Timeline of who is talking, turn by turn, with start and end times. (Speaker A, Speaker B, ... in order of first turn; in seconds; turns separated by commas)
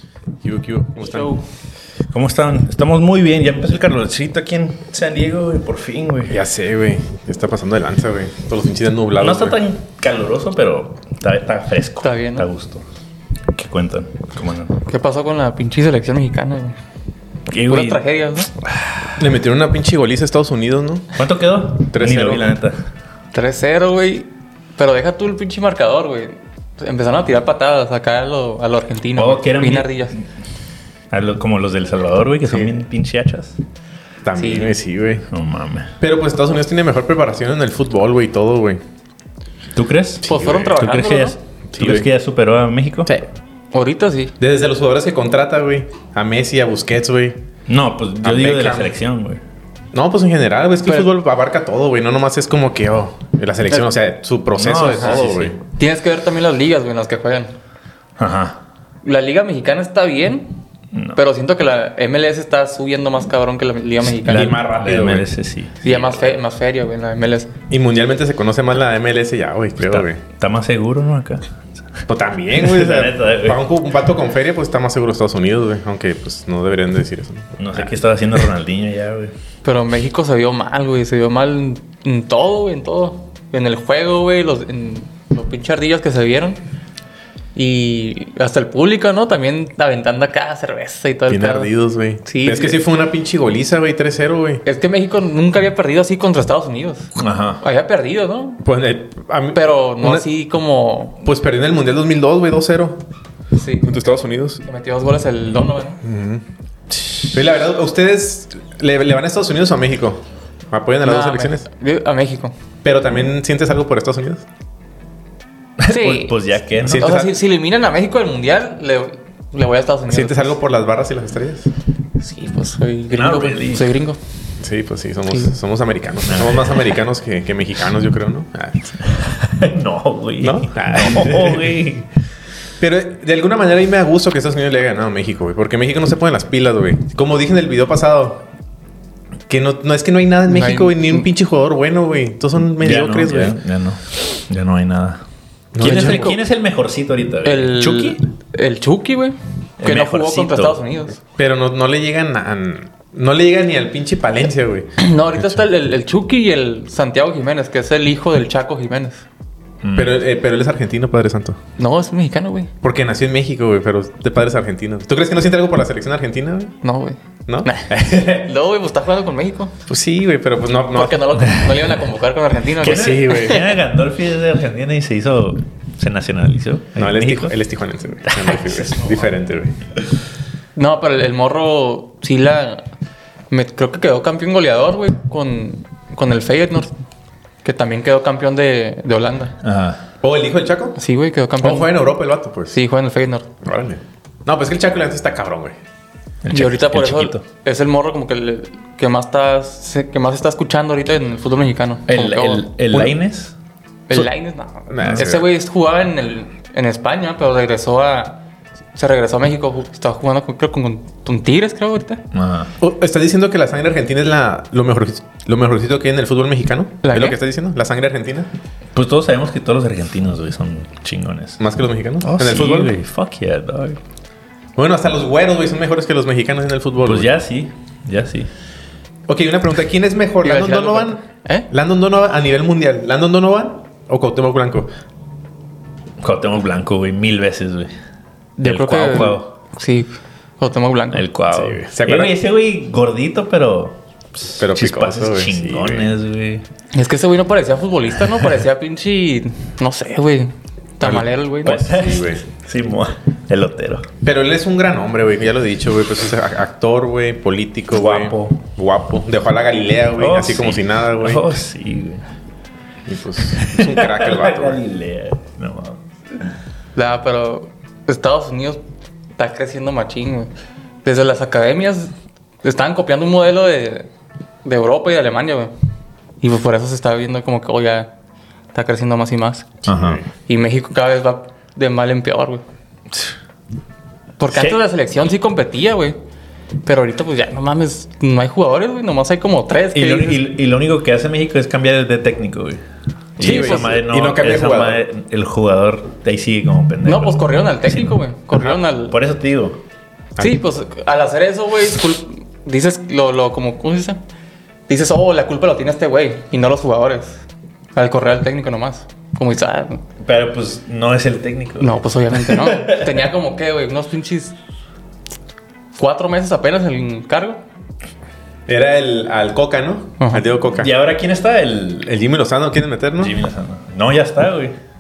Speaker A: 0.4-1.3, Speaker B: 1.0-1.4, Speaker B: 2.1-6.4, Speaker A: 6.3-9.6, Speaker B: 9.2-12.8, Speaker C: 12.0-12.5, Speaker B: 13.5-14.8, Speaker C: 14.9-16.8, Speaker B: 17.5-18.0, Speaker C: 17.7-18.5, Speaker B: 18.6-19.2, Speaker A: 19.2-21.2, Speaker B: 21.2-22.8, Speaker A: 21.9-22.5, Speaker C: 23.3-30.2, Speaker B: 29.2-30.0, Speaker B: 31.1-33.6, Speaker A: 32.5-32.8, Speaker A: 34.2-35.2, Speaker C: 34.4-34.7, Speaker B: 35.3-35.9, Speaker A: 36.0-38.8, Speaker B: 39.8-43.1, Speaker A: 40.2-40.8, Speaker C: 40.3-41.4, Speaker A: 41.7-42.1, Speaker C: 43.7-44.3, Speaker A: 44.4-47.4, Speaker B: 47.7-49.4, Speaker A: 48.2-49.0, Speaker A: 49.9-55.6, Speaker B: 54.5-55.5, Speaker C: 54.9-57.5, Speaker B: 58.2-58.6, Speaker C: 59.0-60.5, Speaker B: 60.9-61.2, Speaker C: 61.1-64.6, Speaker B: 64.0-66.4, Speaker A: 64.3-65.3, Speaker C: 65.8-67.5, Speaker A: 67.7-70.2, Speaker B: 69.8-71.5, Speaker A: 72.1-77.9, Speaker B: 72.6-73.6, Speaker B: 77.6-79.3, Speaker C: 79.6-86.6, Speaker C: 87.5-91.7, Speaker A: 91.3-94.6, Speaker C: 92.2-92.8, Speaker C: 94.6-98.7, Speaker B: 97.2-97.6, Speaker A: 98.6-100.3, Speaker C: 99.5-101.2, Speaker A: 101.2-103.0, Speaker C: 103.5-104.0, Speaker A: 103.8-104.6, Speaker C: 104.6-106.0, Speaker A: 106.0-106.5, Speaker A: 107.3-111.7, Speaker C: 111.0-112.5, Speaker A: 112.8-114.5, Speaker B: 115.8-117.3, Speaker C: 115.9-120.6, Speaker A: 116.8-117.3, Speaker A: 120.1-121.7, Speaker C: 122.2-124.2, Speaker B: 123.1-123.9, Speaker A: 124.6-128.9, Speaker B: 126.3-126.8, Speaker B: 129.0-132.1, Speaker A: 130.4-131.9, Speaker A: 132.8-138.4, Speaker A: 139.5-143.6, Speaker C: 140.5-141.3, Speaker B: 142.8-145.2, Speaker A: 145.7-146.4, Speaker B: 145.8-148.2, Speaker C: 145.8-146.3, Speaker C: 147.4-151.2, Speaker B: 149.8-150.8, Speaker A: 151.4-155.6, Speaker C: 155.0-159.2, Speaker B: 159.8-160.2, Speaker A: 159.9-161.6, Speaker C: 161.8-162.7, Speaker A: 162.8-166.7, Speaker C: 166.8-169.7, Speaker A: 167.5-168.4, Speaker A: 169.9-171.4, Speaker C: 170.9-173.8, Speaker B: 171.4-171.9, Speaker B: 172.8-177.6, Speaker A: 172.8-173.6, Speaker A: 177.0-179.8, Speaker B: 178.3-178.9, Speaker C: 180.8-182.8, Speaker C: 183.5-186.9, Speaker C: 187.6-189.6, Speaker B: 189.6-190.0, Speaker A: 190.2-191.0, Speaker C: 191.0-192.0, Speaker A: 191.6-192.8, Speaker C: 192.7-193.5, Speaker A: 193.6-195.8, Speaker B: 196.4-197.4, Speaker C: 196.5-202.7, Speaker B: 202.1-203.5, Speaker C: 204.1-208.4, Speaker A: 204.9-205.4, Speaker B: 205.0-205.3, Speaker C: 209.0-212.2, Speaker B: 212.3-212.7, Speaker A: 212.8-218.5, Speaker C: 217.0-217.4, Speaker B: 218.9-221.6, Speaker A: 221.6-223.0, Speaker B: 222.2-224.0, Speaker A: 224.8-227.3, Speaker B: 227.1-228.5, Speaker A: 229.3-234.9, Speaker C: 230.4-231.7, Speaker B: 236.2-237.9, Speaker C: 238.6-241.2, Speaker B: 238.6-239.5, Speaker B: 241.1-246.6, Speaker A: 241.5-242.3, Speaker A: 244.6-246.1, Speaker C: 246.9-251.8, Speaker A: 251.0-252.4, Speaker B: 251.7-254.1, Speaker A: 254.2-261.5, Speaker B: 257.9-258.6, Speaker B: 260.2-262.2, Speaker A: 263.1-264.8, Speaker B: 263.6-266.5, Speaker C: 266.9-268.8, Speaker C: 269.4-270.5, Speaker C: 271.0-272.1, Speaker C: 272.6-274.1, Speaker C: 274.6-275.7, Speaker C: 276.4-278.1, Speaker C: 278.7-279.7, Speaker A: 279.8-280.3, Speaker B: 279.9-280.2, Speaker C: 280.5-282.6, Speaker C: 284.4-286.2, Speaker B: 284.5-284.8, Speaker C: 286.9-290.4, Speaker B: 289.9-292.8, Speaker B: 293.4-298.2, Speaker C: 293.4-294.0, Speaker A: 293.4-295.0, Speaker C: 297.1-299.2, Speaker B: 299.1-299.8, Speaker C: 300.4-304.2, Speaker C: 304.9-307.4, Speaker C: 307.9-310.0, Speaker B: 310.2-313.3, Speaker C: 311.8-314.6, Speaker C: 315.9-317.6, Speaker A: 318.7-320.9, Speaker B: 320.8-322.1, Speaker A: 322.1-323.4, Speaker B: 323.2-324.8